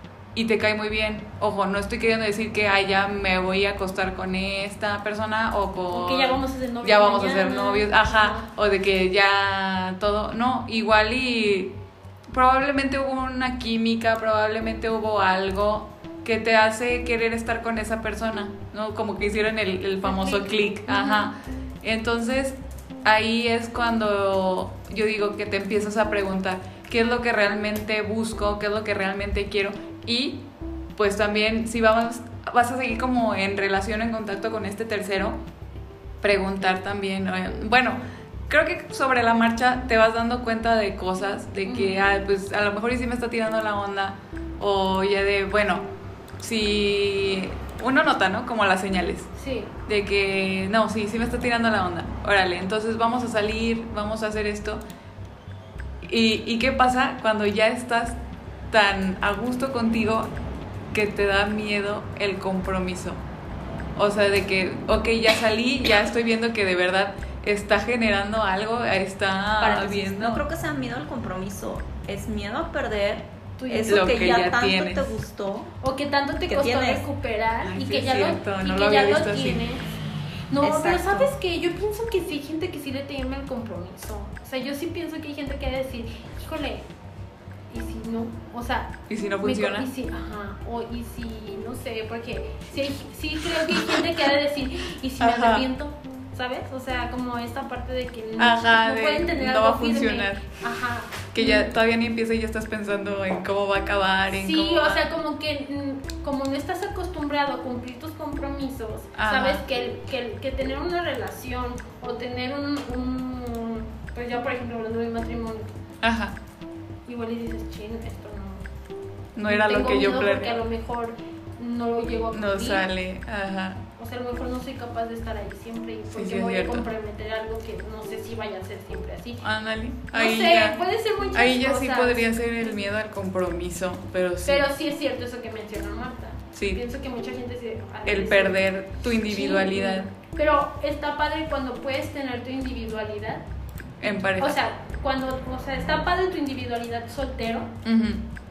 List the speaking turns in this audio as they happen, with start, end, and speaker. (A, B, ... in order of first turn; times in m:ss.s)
0:00.3-0:11.7 A
0:05.9-0:08.5 B
0:12.3-0:30.4 A
0:20.0-0:21.3 B
0:31.0-0:35.4 A
0:36.2-0:45.8 A
0:41.6-0:42.0 B
0:46.4-0:49.3 A
0:49.4-0:49.7 B
0:49.9-0:54.8 A
0:56.0-0:58.2 A
0:58.7-1:00.3 A
1:00.9-1:03.2 A
1:04.0-1:10.4 A
1:09.6-1:15.7 C
1:13.6-1:14.1 B
1:13.8-1:15.2 A
1:15.8-1:19.8 B
1:16.5-1:17.0 C
1:17.6-1:19.6 A
1:20.5-1:26.8 B
1:20.6-1:21.3 C
1:27.7-1:41.7 B
1:29.1-1:29.9 A
1:35.2-1:35.6 A
1:38.4-1:40.5 A
1:41.3-1:45.0 A
1:44.3-1:55.8 B
1:49.2-1:49.6 A
1:56.0-1:56.4 A
1:57.0-1:58.6 B
1:59.4-2:00.6 A
1:59.5-2:02.8 B
2:02.3-2:03.8 A
2:04.0-2:09.4 B
2:06.1-2:06.9 A
2:09.4-2:10.8 A
2:10.1-2:12.9 B
2:11.3-2:14.6 A
2:14.4-2:23.4 B
2:16.5-2:16.8 A
2:18.0-2:20.1 A
2:24.0-2:24.6 A
2:24.4-2:27.7 B
2:27.8-2:28.2 A